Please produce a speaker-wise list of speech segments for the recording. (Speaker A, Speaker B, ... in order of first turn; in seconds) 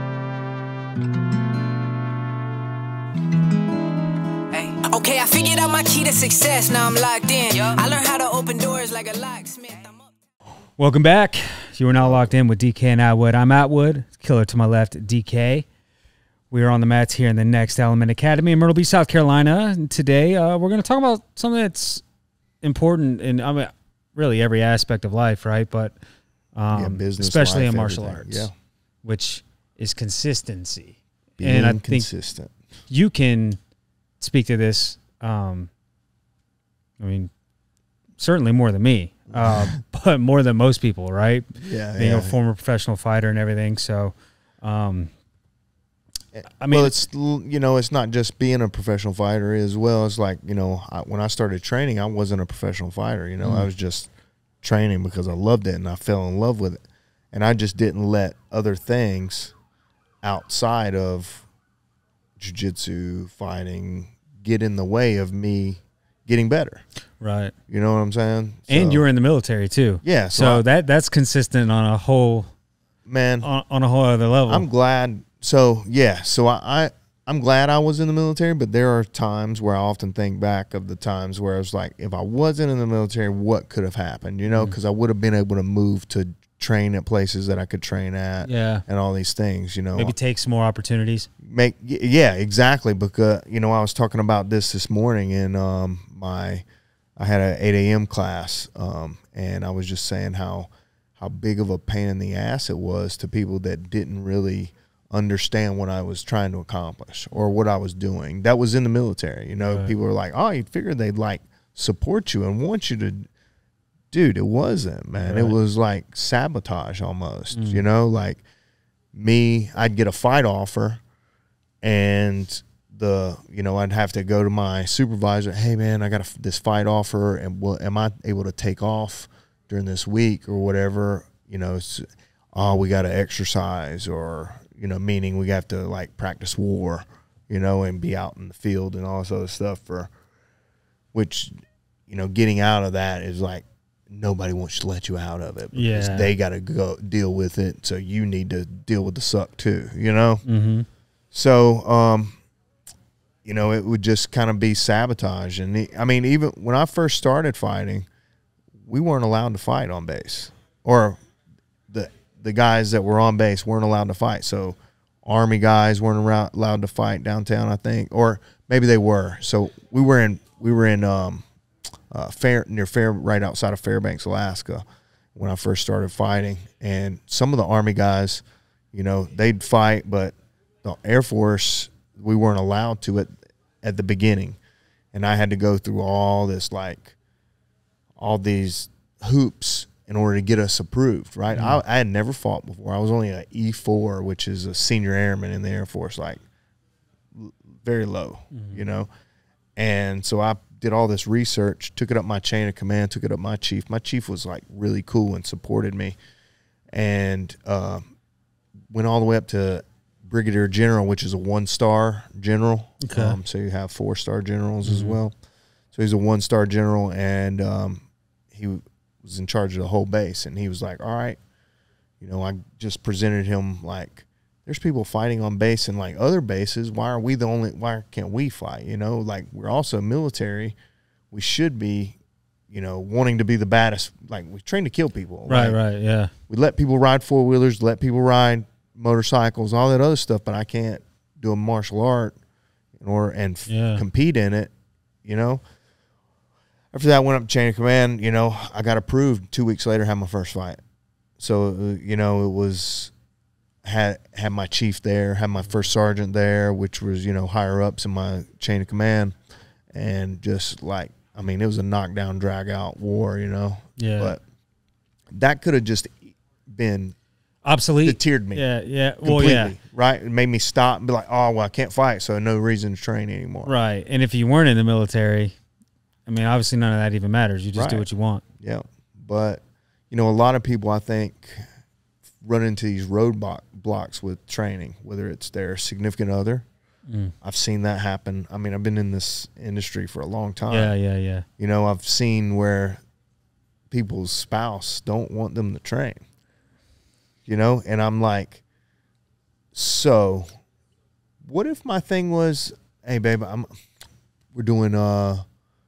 Speaker A: 4.5-10.1
Speaker B: 10.8-15.7, 16.5-22.0, 22.6-25.9, 26.5-28.5, 29.0-32.1, 32.9-33.6, 34.2-35.7, 37.0-37.3, 38.2-45.1, 46.6-46.9, 53.4-53.7, 67.2-67.5, 68.7-72.5, 73.4-74.7, 84.5-84.8, 88.4-88.8, 90.0-91.3, 109.6-109.9, 115.2-115.5, 117.5-117.8, 145.7-146.3, 150.4-150.8, 191.5-191.8, 198.5-198.8, 213.0-213.4, 214.8-215.2, 235.5-236.3, 243.7-244.0, 264.0-264.4, 267.6-269.7, 273.6-275.6, 276.2-278.4, 287.1-287.3, 290.7-291.4
Speaker C: 12.0-12.3, 26.7-28.5, 31.4-32.5, 39.3-39.7, 41.6-42.4, 46.4-54.1, 54.6-59.5, 60.2-61.5, 62.4-66.8, 67.7-69.0, 70.0-70.6, 73.0-73.5, 74.5-90.2, 91.4-96.6, 97.2-113.3, 114.1-118.4, 119.1-121.0, 121.8-140.1, 141.1-141.5, 142.1-150.4, 151.3-152.3, 153.4-158.1, 158.8-161.2, 161.9-171.4, 172.1-174.8, 175.3-183.3, 183.8-184.6, 185.1-187.2, 188.2-196.4, 197.3-199.1, 199.8-206.2, 206.9-208.0, 208.9-215.3, 215.9-221.4, 222.2-230.8, 231.3-232.2, 232.7-235.8, 236.5-242.4, 243.0-244.7, 245.2-245.6, 246.9-250.8, 251.4-253.1, 253.8-259.3, 259.9-264.4, 265.3-267.1, 268.0-268.7, 269.2-273.7, 277.7-278.1, 278.6-281.7, 282.4-286.6, 287.4-290.9, 291.6-293.0, 293.9-296.2, 297.4-298.6, 299.7-300.5, 301.4-303.7, 304.5-305.4